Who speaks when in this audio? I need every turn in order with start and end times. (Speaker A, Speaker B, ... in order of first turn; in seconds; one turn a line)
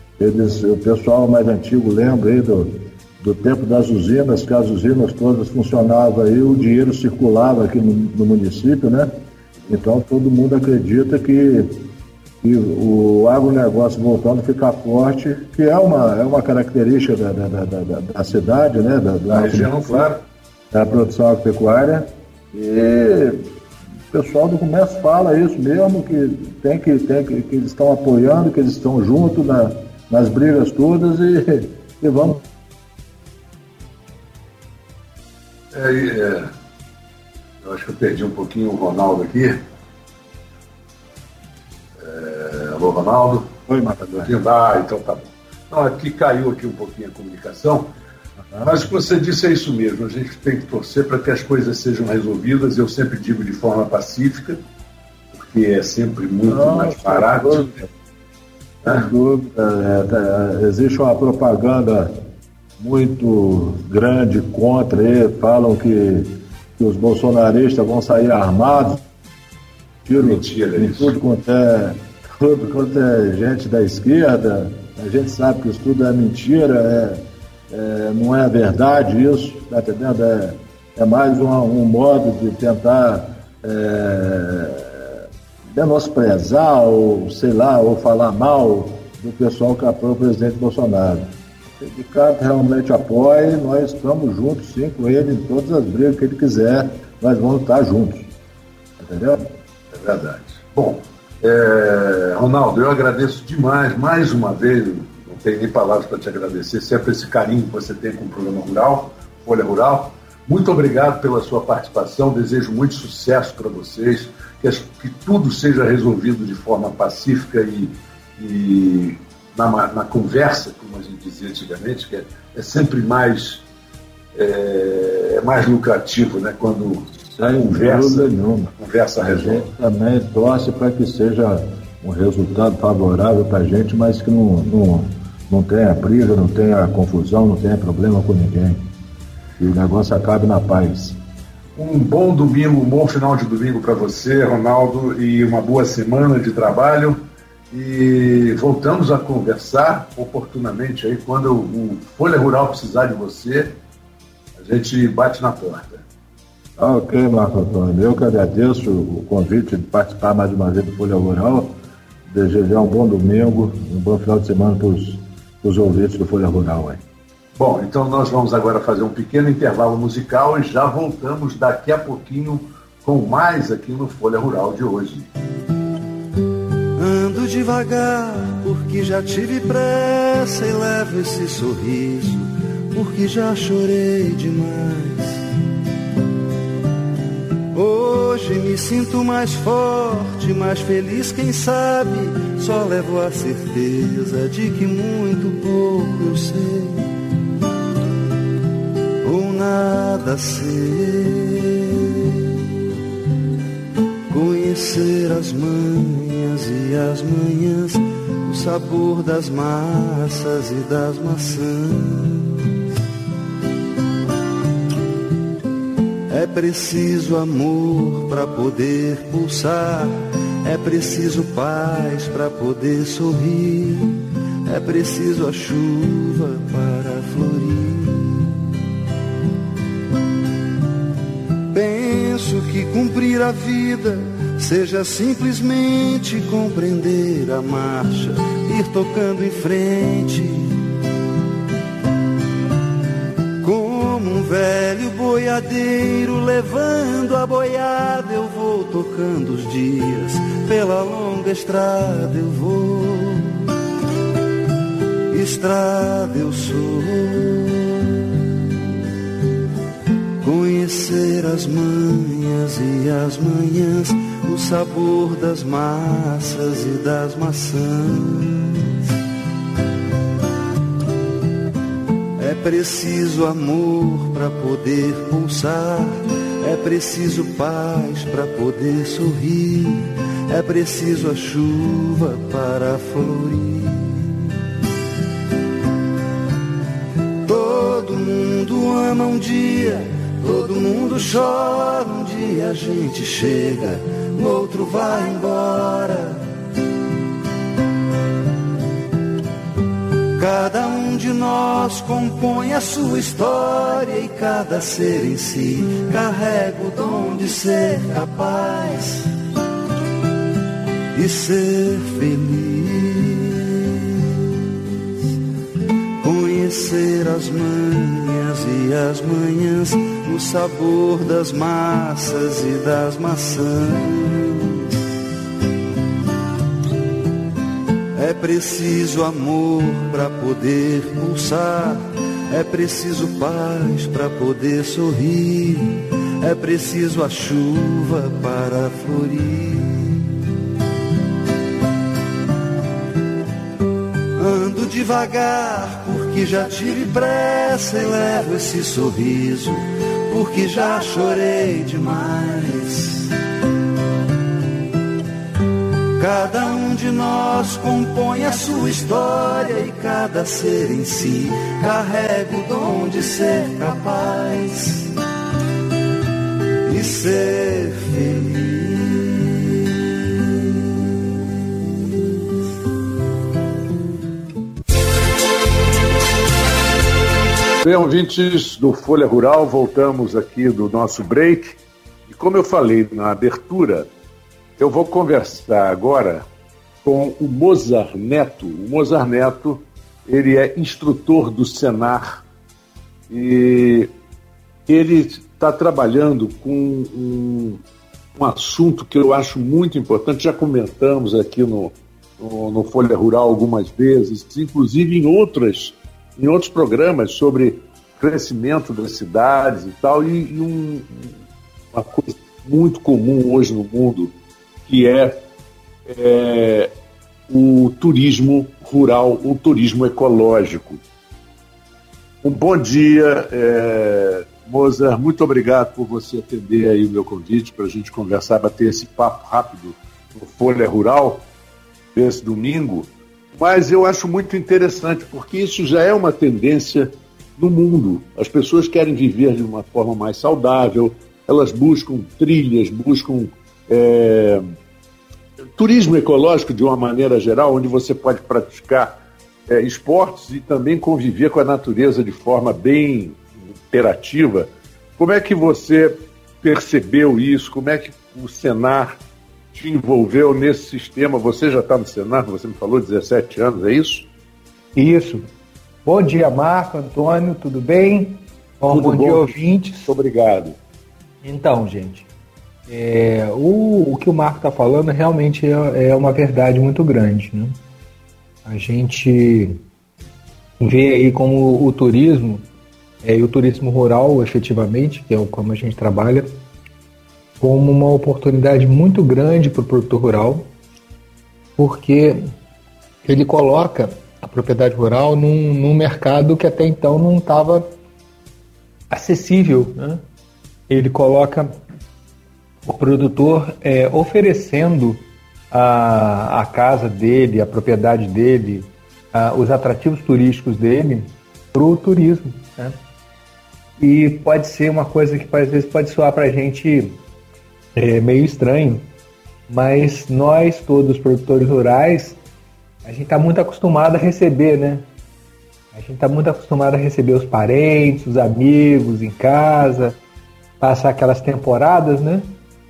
Speaker A: 0.2-9.1
Speaker A: 9.7-11.8
Speaker A: 12.4-20.1
Speaker B: 19.3-20.2
Speaker A: 20.7-23.4
Speaker A: 24.1-32.4
Speaker B: 35.7-36.5
Speaker B: 37.6-39.6
Speaker B: 42.0-43.5
Speaker A: 43.7-44.4
Speaker B: 44.1-47.9
Speaker B: 48.6-54.6
Speaker B: 55.3-57.8
Speaker A: 56.5-57.9
Speaker A: 58.9-62.1
Speaker A: 62.8-69.0
Speaker A: 70.0-85.2
Speaker B: 70.1-71.2
Speaker A: 85.7-98.3
Speaker A: 99.0-99.5
Speaker B: 99.9-123.6
Speaker B: 124.3-129.7
Speaker A: 127.3-138.8
Speaker A: 139.6-141.2
Speaker B: 141.8-153.7
Speaker B: 154.6-156.1
Speaker A: 156.8-161.8
Speaker A: 162.3-167.0
Speaker B: 167.6-175.3
Speaker C: 177.0-185.4
Speaker C: 187.7-197.2
Speaker C: 199.2-202.5
Speaker C: 204.3-212.6
Speaker C: 216.3-228.5
Speaker C: 231.7-240.8
Speaker C: 243.6-253.7
Speaker C: 255.3-258.1
Speaker C: 260.4-268.9
Speaker C: 272.4-284.5
Speaker C: 287.4-296.5
Speaker C: 300.4-309.3
Speaker C: 311.1-315.0
Speaker C: 316.2-324.9
Speaker C: 328.1-340.3
Speaker C: 344.4-353.3
Speaker C: 356.2-365.1
Speaker C: 366.9-369.9
Speaker B: 377.8-384.1
Speaker B: 384.8-386.4
Speaker B: 387.0-392.4
Speaker B: 393.3-394.1
Speaker B: 394.9-397.8
Speaker B: 398.4-411.3
Speaker B: 411.9-414.3
Speaker B: 414.9-415.4
Speaker B: 416.1-416.9
Speaker B: 417.5-421.0
Speaker B: 422.4-431.4
Speaker B: 432.1-444.6
Speaker B: 445.8-449.2
Speaker B: 449.7-459.2
Speaker B: 459.7-464.3
Speaker D: 464.9-465.5
Speaker D: 466.1-470.1
Speaker B: 468.9-470.8
Speaker D: 471.4-472.3
Speaker D: 472.9-477.8
Speaker D: 478.6-479.8
Speaker D: 480.8-482.6
Speaker D: 483.2-486.5
Speaker D: 487.6-490.7
Speaker D: 491.8-492.4
Speaker D: 493.2-497.9
Speaker D: 499.1-500.2
Speaker D: 500.9-501.7
Speaker D: 502.9-513.0
Speaker D: 514.0-517.2
Speaker D: 518.0-519.1
Speaker D: 519.7-522.4
Speaker D: 523.0-525.1
Speaker D: 525.9-530.2
Speaker D: 530.8-532.5